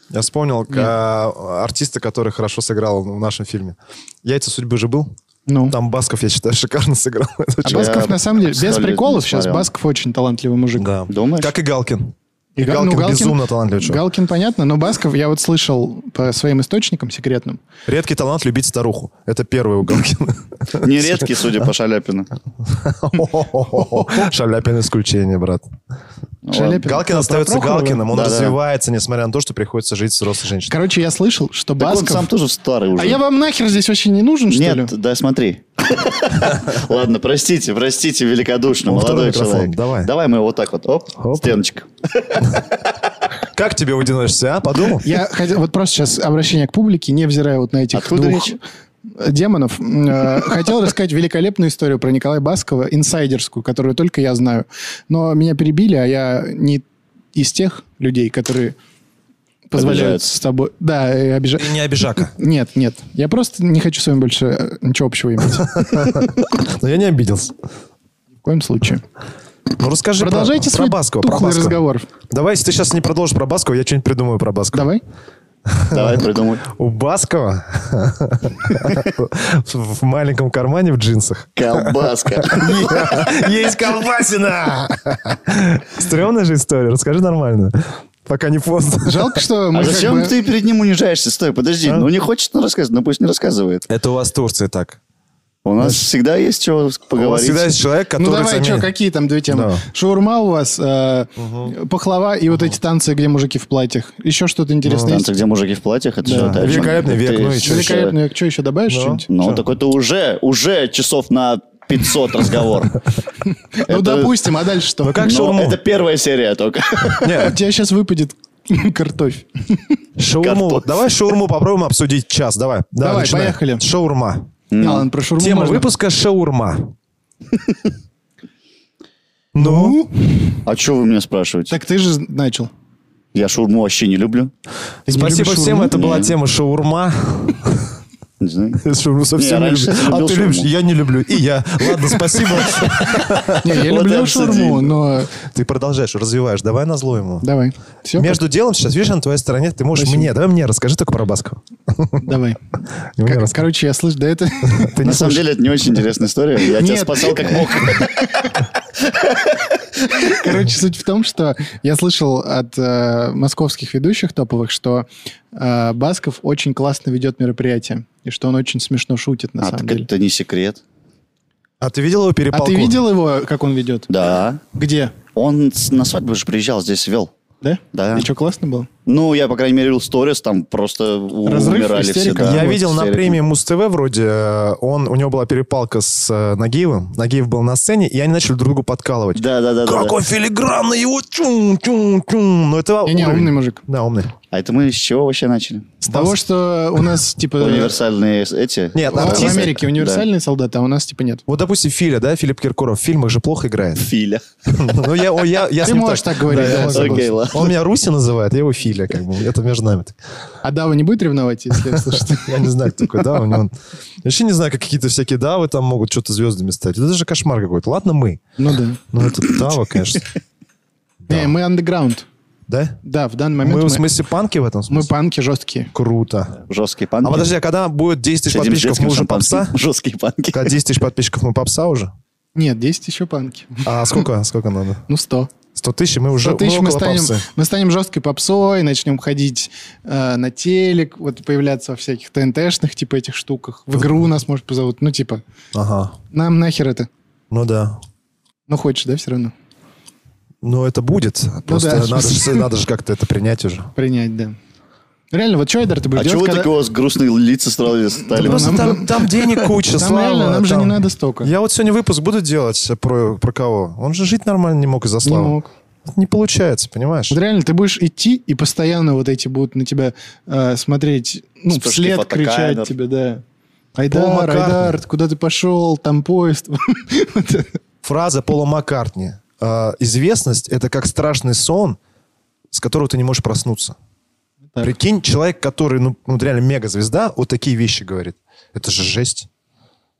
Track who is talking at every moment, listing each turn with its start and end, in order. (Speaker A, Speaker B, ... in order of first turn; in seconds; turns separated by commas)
Speaker A: 0.1-5.1, Speaker B: 5.5-5.8, Speaker A: 5.7-8.1, Speaker B: 7.7-10.9, Speaker C: 7.7-9.7, Speaker A: 10.8-14.0, Speaker C: 11.1-11.5, Speaker B: 12.6-17.6, Speaker A: 17.9-21.5, Speaker C: 20.8-22.3, Speaker A: 22.6-25.7, Speaker C: 26.4-26.8, Speaker B: 26.5-28.1, Speaker A: 26.8-30.7, Speaker C: 28.1-28.6, Speaker B: 30.7-32.3, Speaker C: 31.8-33.2, Speaker B: 33.0-34.9, Speaker C: 34.5-42.6, Speaker A: 38.9-40.1, Speaker A: 41.2-41.6, Speaker A: 43.4-45.1, Speaker B: 45.0-56.8, Speaker C: 47.9-48.5, Speaker B: 57.4-58.8, Speaker B: 59.7-66.1, Speaker C: 59.8-60.3, Speaker A: 61.6-62.3, Speaker A: 65.8-67.5, Speaker B: 68.4-69.0, Speaker A: 69.8-71.8, Speaker B: 70.2-72.1, Speaker A: 72.3-74.9, Speaker B: 74.7-75.0, Speaker A: 75.7-89.4, Speaker C: 75.9-76.7, Speaker C: 81.6-83.3, Speaker B: 89.0-90.4, Speaker C: 89.7-93.9, Speaker A: 93.9-95.0, Speaker C: 95.7-97.7, Speaker A: 95.8-96.1, Speaker A: 97.2-98.9, Speaker B: 98.2-105.3, Speaker A: 99.5-99.8, Speaker A: 101.4-101.7, Speaker A: 104.8-105.2, Speaker C: 105.0-108.2, Speaker B: 106.2-106.8, Speaker A: 106.3-108.0, Speaker B: 107.6-109.3, Speaker A: 108.9-109.6, Speaker C: 109.3-113.0, Speaker B: 113.7-115.2, Speaker C: 113.9-114.5, Speaker A: 115.0-115.8, Speaker C: 115.2-117.5, Speaker A: 117.2-117.6, Speaker B: 117.2-120.0, Speaker A: 120.2-124.5, Speaker C: 120.4-121.0, Speaker B: 123.0-123.8, Speaker C: 124.7-125.1, Speaker B: 124.8-125.9, Speaker A: 125.4-126.9, Speaker A: 129.5-130.0, Speaker B: 129.6-130.6, Speaker C: 130.6-131.8, Speaker B: 131.7-132.7, Speaker C: 133.3-134.5, Speaker B: 135.1-136.0, Speaker A: 135.1-138.0, Speaker C: 135.9-136.3, Speaker C: 138.4-138.8, Speaker A: 138.8-143.8, Speaker C: 139.4-140.7, Speaker B: 143.6-145.3, Speaker C: 143.7-145.0, Speaker A: 145.3-147.5, Speaker B: 147.4-148.4, Speaker A: 148.2-152.3, Speaker B: 150.0-150.3, Speaker B: 152.2-152.6, Speaker A: 153.2-153.6, Speaker B: 153.2-155.0, Speaker A: 154.7-155.4, Speaker C: 155.0-158.3, Speaker B: 156.6-158.5, Speaker B: 160.1-170.1, Speaker C: 169.6-170.8, Speaker A: 171.8-173.0, Speaker B: 172.5-174.1, Speaker C: 174.1-174.6, Speaker B: 174.7-175.2, Speaker C: 175.3-177.3, Speaker B: 177.6-178.9, Speaker C: 177.9-178.3, Speaker C: 179.1-183.4, Speaker B: 181.5-182.7, Speaker A: 182.4-194.3, Speaker C: 189.3-190.2, Speaker B: 193.1-193.8, Speaker C: 194.5-195.9, Speaker B: 196.0-197.9, Speaker A: 196.1-196.4, Speaker C: 197.6-200.2, Speaker A: 198.9-199.8, Speaker B: 199.1-201.4, Speaker A: 201.5-204.1, Speaker C: 204.0-204.4, Speaker A: 204.7-210.2, Speaker B: 205.8-207.3, Speaker C: 206.5-207.7, Speaker B: 210.6-212.7, Speaker A: 211.9-218.5, Speaker B: 218.6-219.0, Speaker A: 219.1-220.3, Speaker A: 221.3-221.5, Speaker B: 221.3-222.3, Speaker A: 222.7-223.0, Speaker B: 223.0-224.1, Speaker A: 223.6-225.1, Speaker B: 224.9-225.9, Speaker A: 225.9-226.6, Speaker C: 226.7-227.5, Speaker A: 227.2-229.8, Speaker C: 228.5-230.7, Speaker A: 230.5-232.1, Speaker B: 232.6-234.2, Speaker A: 233.9-235.0, Speaker B: 235.1-235.5, Speaker A: 235.8-237.5, Speaker B: 236.4-245.4, Speaker A: 245.7-246.2, Speaker B: 246.3-247.1, Speaker A: 247.5-248.0, Speaker B: 248.7-249.5, Speaker A: 250.6-253.9, Speaker B: 251.7-252.7, Speaker B: 254.0-254.6, Speaker B: 255.3-256.7, Speaker C: 256.2-259.0, Speaker B: 258.3-259.1, Speaker A: 258.4-267.4, Speaker B: 260.0-261.5, Speaker B: 265.2-265.7, Speaker B: 267.3-273.4, Speaker C: 271.7-272.9, Speaker B: 274.0-277.8, Speaker A: 274.1-274.9, Speaker A: 278.0-282.0, Speaker A: 282.7-284.0, Speaker A: 284.8-289.5